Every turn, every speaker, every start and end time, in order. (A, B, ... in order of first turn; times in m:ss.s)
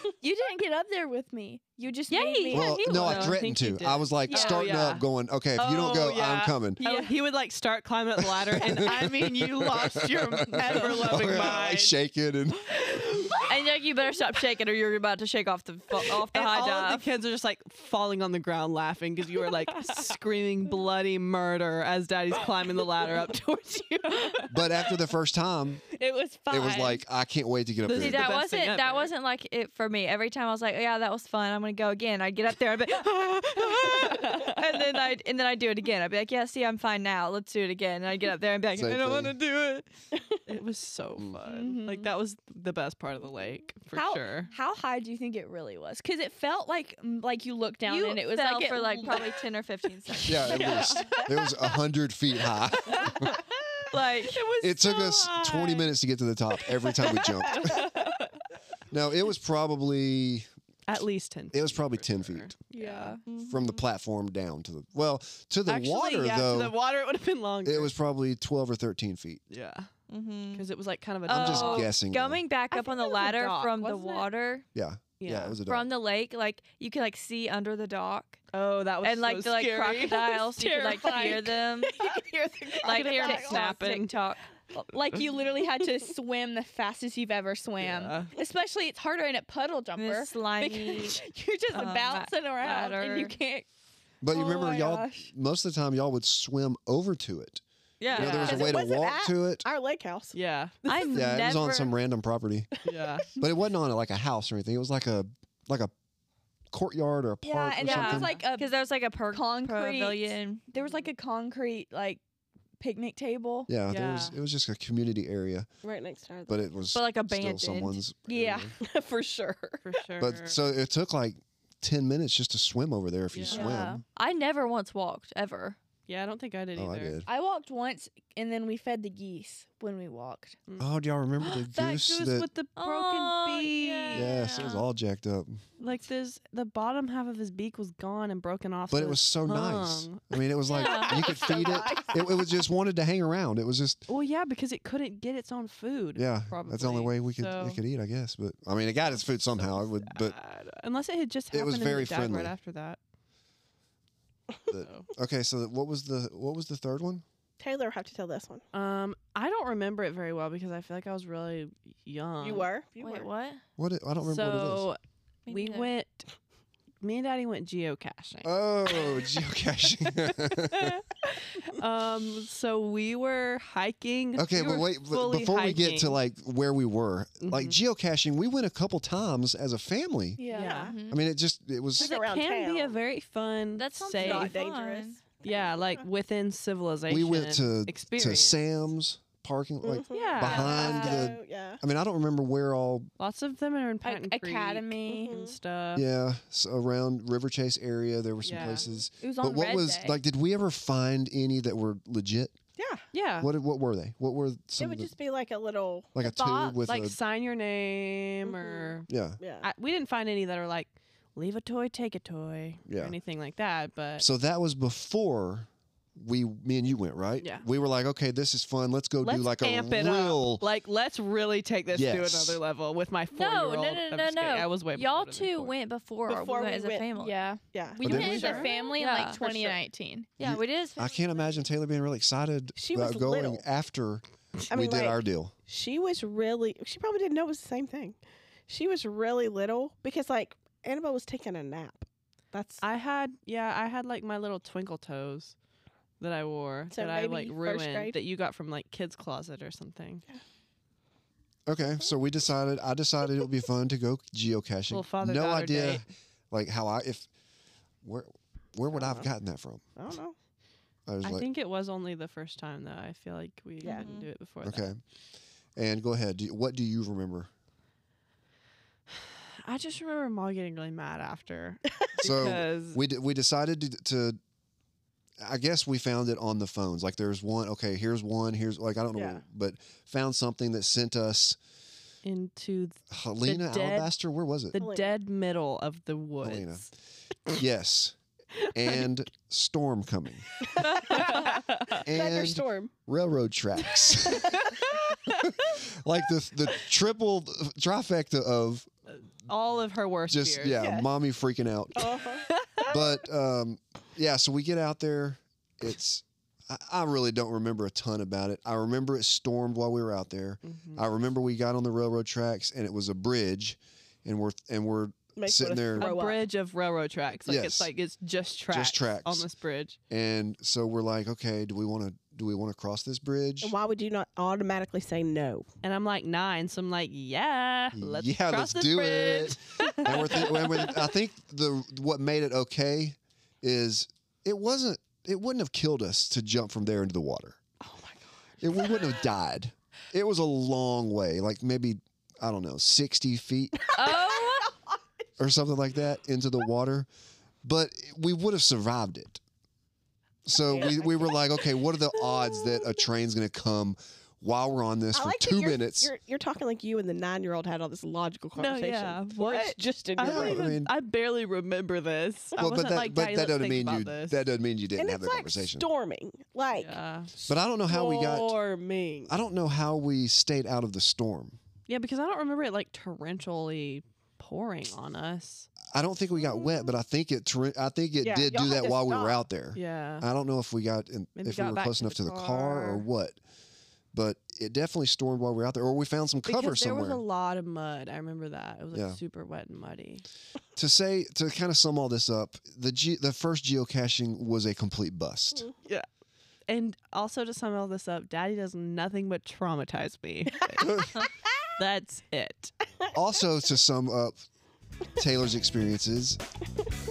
0:00.2-0:03.4 A
0:02.1-0:03.3 B
0:02.5-0:06.8 C
0:03.0-0:12.0 D
0:04.3-0:04.6 A
0:06.8-0:07.1 B
0:08.3-0:12.9 C
0:10.6-0:11.0 B
0:13.5-0:17.1 B
0:16.3-0:24.4 D
0:24.5-0:25.8 C
0:25.9-0:27.0 A
0:26.5-0:28.3 C
0:27.8-0:29.1 D
0:27.9-0:39.8 B
0:34.1-0:34.5 A
0:38.7-0:39.4 C
0:40.4-0:44.5 D
0:41.4-0:42.1 A
0:43.9-0:49.3 A
0:47.8-0:50.7 B
0:50.1-0:51.3 A
0:50.2-0:53.4 C
0:53.9-0:54.5 B
0:54.3-0:55.9 D
0:54.6-0:57.9 C
0:58.9-1:00.5 C
1:00.9-1:03.2 D
1:01.5-1:02.5 C
1:02.7-1:03.2 A
1:03.2-1:03.6 B
1:03.5-1:06.8 C
1:05.7-1:07.9 D
1:07.6-1:09.4 C
1:09.5-1:09.9 D
1:10.1-1:10.7 B
1:10.5-1:11.9 D
1:11.2-1:14.6 B
1:11.3-1:12.4 C
1:12.7-1:14.2 D
1:14.7-1:15.9 C
1:15.2-1:15.6 D
1:15.6-1:18.4 B
1:18.5-1:20.5 D
1:19.0-1:22.0 B
1:20.5-1:21.6 A
1:21.8-1:23.8 E
1:22.8-1:24.4 B
1:22.8-1:23.5 A
1:22.9-1:24.2 D
1:24.7-1:33.7 A
1:27.8-1:28.3 D
1:30.0-1:31.2 B
1:31.7-1:33.4 B
1:34.2-1:37.6 C
1:34.3-1:35.3 A
1:38.0-1:38.7 B
1:38.1-1:38.8 D
1:38.1-1:39.6 C
1:38.3-1:41.2 E
1:40.3-1:40.8 D
1:40.8-1:41.9 B
1:41.1-1:42.7 C
1:42.8-1:43.3 D
1:43.3-1:45.9 C
1:46.7-1:48.4 C
1:47.4-1:48.7 A
1:47.8-1:50.6 B
1:49.3-1:52.2 A
1:52.8-1:53.7 A
1:53.7-1:55.7 C
1:53.9-1:54.4 D
1:55.8-1:56.8 E
1:56.5-1:58.7 C
1:56.9-1:58.0 B
1:58.3-1:58.7 A
1:58.8-2:00.0 E
1:59.8-2:00.6 D
2:00.2-2:04.0 C
2:03.3-2:03.7 D
2:03.5-2:04.0 A
2:03.6-2:05.8 B
2:06.0-2:07.2 D
2:06.7-2:07.3 C
2:07.2-2:10.6 A
2:10.7-2:14.3 D
2:10.8-2:12.5 C
2:12.8-2:14.8 B
2:14.1-2:15.6 C
2:15.8-2:20.4 D
2:18.9-2:24.0 C
2:20.7-2:21.3 B
2:20.8-2:22.2 E
2:21.3-2:21.6 D
2:24.1-2:27.8 D
2:26.1-2:30.4 C
2:29.6-2:33.0 D
2:31.5-2:32.6 C
2:34.7-2:37.2 C
2:34.7-2:35.1 D
2:37.6-2:38.6 E
2:38.7-2:42.7 D
2:42.4-2:43.3 E
2:43.0-2:43.6 B
2:43.8-2:44.9 C
2:44.2-2:46.3 D
2:45.5-2:45.9 B
2:47.0-2:49.4 D
2:48.4-2:51.0 C
2:50.0-2:56.2 D
2:54.4-3:00.4 C
2:57.4-2:57.8 D
3:00.4-3:00.9 A
3:00.5-3:00.9 D
3:00.6-3:00.9 E
3:00.7-3:01.2 B
3:01.1-3:02.1 C
3:02.0-3:03.0 E
3:02.0-3:04.6 D
3:03.8-3:05.2 B
3:04.1-3:06.0 E
3:05.4-3:08.6 D
3:07.1-3:13.1 C
3:09.8-3:11.8 E
3:10.1-3:11.2 D
3:10.7-3:11.2 B
3:13.2-3:16.0 D
3:14.0-3:15.3 A
3:15.0-3:15.6 E
3:15.9-3:22.5 C
3:18.4-3:18.9 D
3:18.6-3:18.9 E
3:19.2-3:20.2 A
3:22.8-3:23.1 E
3:23.1-3:23.5 D
3:23.4-3:25.1 C
3:24.8-3:26.1 E
3:26.1-3:27.2 C
3:26.5-3:29.1 D
3:28.4-3:29.7 E
3:29.1-3:29.4 C
3:29.6-3:34.2 D
3:32.9-3:33.2 C
3:34.2-3:40.6 C
3:37.4-3:37.6 D
3:39.2-3:45.8 D
3:41.9-3:42.6 C
3:43.3-3:47.4 B
3:46.2-3:47.1 E
3:47.1-3:50.3 A
3:47.7-3:49.8 E
3:48.0-3:48.6 C
3:48.1-3:48.9 D
3:48.1-3:49.4 B
3:50.4-3:51.6 B
3:50.4-3:55.5 C
3:52.7-3:53.6 E
3:54.7-3:58.2 E
3:58.7-4:02.8 E
4:02.8-4:05.5 D
4:06.2-4:10.2 D
4:06.9-4:08.2 E
4:11.6-4:17.3 C
4:14.9-4:16.1 D
4:18.0-4:19.8 C
4:18.9-4:19.3 E
4:20.0-4:20.3 E
4:21.1-4:21.5 C
4:21.2-4:24.9 D
4:23.8-4:24.1 E
4:23.9-4:24.3 B
4:24.6-4:25.0 C
4:25.8-4:27.5 C
4:29.1-4:33.0 D
4:32.2-4:34.4 C
4:35.4-4:41.6 C
4:39.1-4:39.4 E
4:42.2-4:44.2 D
4:43.1-4:44.8 C
4:44.7-4:46.9 D
4:44.8-4:45.2 E
4:46.4-4:46.9 C
4:47.5-4:50.5 C
4:50.8-4:52.9 E
4:51.1-4:51.8 D
4:52.0-4:54.6 C
4:55.2-4:58.9 C
4:59.1-5:00.8 D
5:00.3-5:02.1 C
5:00.7-5:01.1 E
5:02.0-5:02.5 E
5:02.5-5:02.9 D
5:02.8-5:16.1 C
5:10.6-5:11.0 D
5:15.3-5:16.4 E
5:16.0-5:20.0 D
5:17.4-5:17.9 C
5:18.7-5:19.4 C
5:20.1-5:23.7 C
5:23.6-5:25.7 E
5:25.8-5:31.1 D
5:27.9-5:37.6 C
5:37.8-5:38.2 D
5:38.6-5:43.9 C
5:43.8-5:45.0 E
5:44.0-5:44.7 B
5:45.4-5:47.1 C
5:47.6-5:49.4 C
5:50.4-5:56.1 C
5:50.5-5:52.9 E
5:55.1-6:00.7 E
5:58.5-6:04.4 D
6:00.2-6:00.9 C
6:02.6-6:05.9 C
6:05.0-6:09.3 E
6:06.7-6:07.3 D
6:07.5-6:08.6 C
6:09.3-6:11.6 C
6:11.9-6:15.7 D
6:15.9-6:23.4 C
6:18.2-6:19.4 E
6:19.7-6:20.3 D
6:21.4-6:23.1 D
6:24.1-6:27.2 C
6:26.4-6:30.2 D
6:28.9-6:29.2 C
6:30.8-6:35.7 C
6:36.7-6:41.2 D
6:41.8-6:42.7 D
6:43.1-6:44.4 C
6:45.2-6:46.4 C